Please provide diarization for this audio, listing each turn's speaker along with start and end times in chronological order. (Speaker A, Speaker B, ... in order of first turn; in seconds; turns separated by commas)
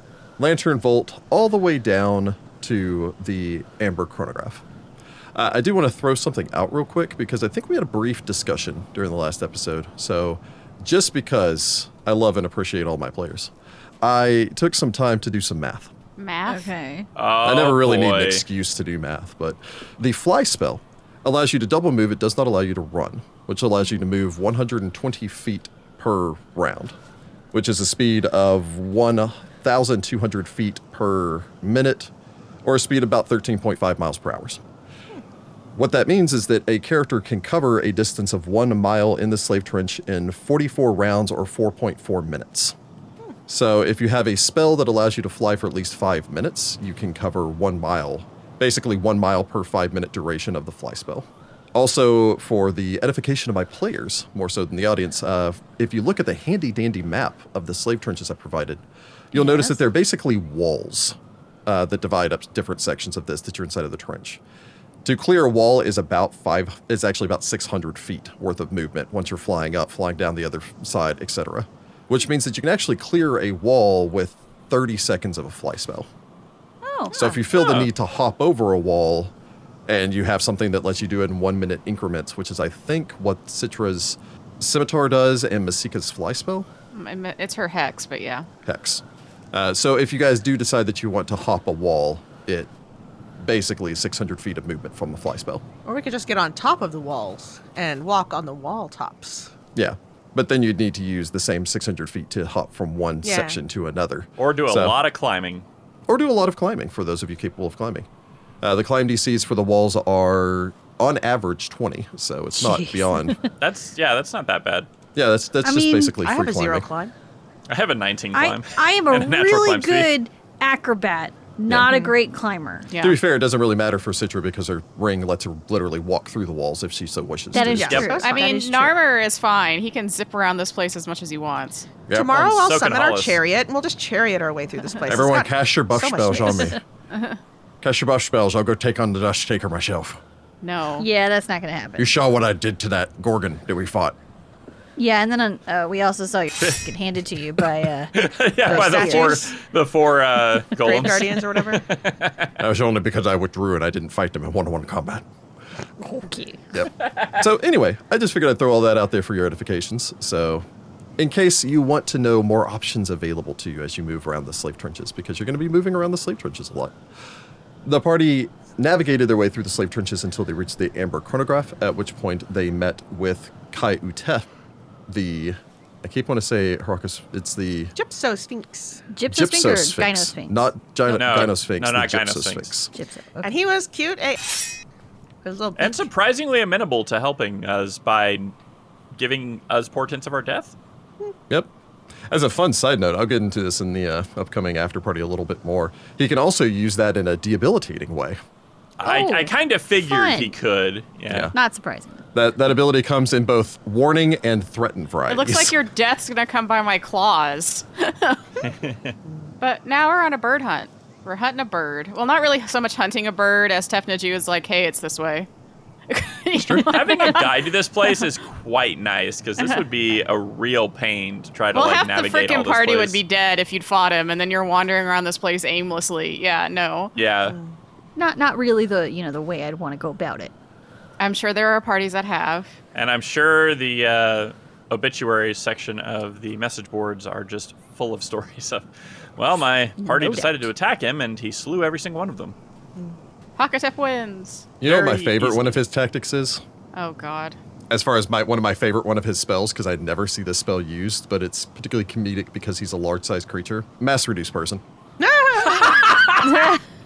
Speaker A: 0.4-4.6, Speaker A: 5.3-13.5, Speaker A: 14.0-15.9, Speaker B: 16.2-16.7, Speaker C: 16.5-17.1, Speaker D: 17.1-18.4, Speaker A: 17.4-26.9, Speaker A: 27.5-32.1, Speaker A: 32.6-34.6, Speaker A: 35.8-42.7, Speaker A: 43.5-64.4, Speaker C: 59.3-59.8, Speaker A: 65.0-76.1, Speaker C: 76.8-77.2, Speaker A: 77.1-79.3, Speaker D: 77.5-77.9, Speaker A: 79.9-86.7, Speaker B: 86.9-88.5, Speaker A: 88.6-92.7, Speaker A: 93.4-95.6, Speaker E: 95.8-99.5, Speaker A: 99.7-105.0, Speaker E: 103.2-103.6, Speaker D: 104.4-105.6, Speaker A: 106.1-108.1, Speaker A: 108.6-113.4, Speaker C: 112.5-113.5, Speaker D: 113.6-114.9, Speaker A: 115.1-116.9, Speaker C: 115.6-116.1, Speaker E: 116.2-117.1, Speaker D: 117.7-120.1, Speaker C: 118.3-122.9, Speaker E: 121.9-122.1, Speaker B: 122.9-123.2, Speaker A: 123.0-128.2, Speaker C: 127.5-129.0, Speaker E: 127.7-128.5, Speaker B: 128.2-132.0, Speaker A: 132.1-132.6, Speaker E: 132.1-136.7, Speaker D: 132.4-133.4, Speaker A: 135.0-136.8, Speaker C: 136.5-136.7, Speaker B: 137.1-137.4, Speaker A: 137.8-140.2, Speaker B: 140.6-141.1, Speaker C: 141.0-142.1, Speaker A: 142.0-144.2, Speaker C: 145.0-149.4, Speaker D: 148.1-152.5, Speaker E: 148.6-149.6, Speaker E: 150.8-151.8, Speaker A: 152.6-155.2, Speaker C: 156.0-156.6, Speaker A: 156.7-160.6, Speaker D: 157.0-157.3, Speaker A: 161.2-166.9, Speaker A: 167.8-174.5, Speaker A: 175.1-177.9, Speaker E: 177.9-179.0, Speaker C: 179.1-180.6, Speaker A: 179.3-182.9, Speaker D: 181.1-182.7, Speaker C: 182.9-183.5, Speaker E: 183.4-184.5, Speaker E: 185.4-186.0, Speaker D: 185.8-188.5, Speaker D: 189.1-190.7, Speaker A: 192.3-198.4, Speaker D: 199.0-201.5, Speaker C: 199.0-200.5, Speaker A: 201.3-201.5, Speaker C: 201.5-202.2, Speaker A: 202.3-205.8, Speaker B: 205.3-208.4, Speaker D: 208.6-209.1, Speaker B: 209.6-215.5, Speaker B: 216.1-218.2, Speaker A: 216.5-216.9, Speaker D: 216.9-223.2, Speaker B: 221.7-227.1, Speaker D: 227.2-227.6, Speaker E: 227.4-227.7, Speaker C: 228.2-230.5, Speaker B: 231.2-232.7, Speaker D: 232.9-242.6, Speaker C: 240.0-240.7, Speaker B: 243.6-244.7, Speaker A: 244.8-246.6, Speaker D: 244.8-245.8, Speaker B: 246.9-247.6, Speaker A: 247.9-254.8, Speaker E: 255.2-256.2, Speaker D: 255.7-256.7, Speaker C: 256.5-256.7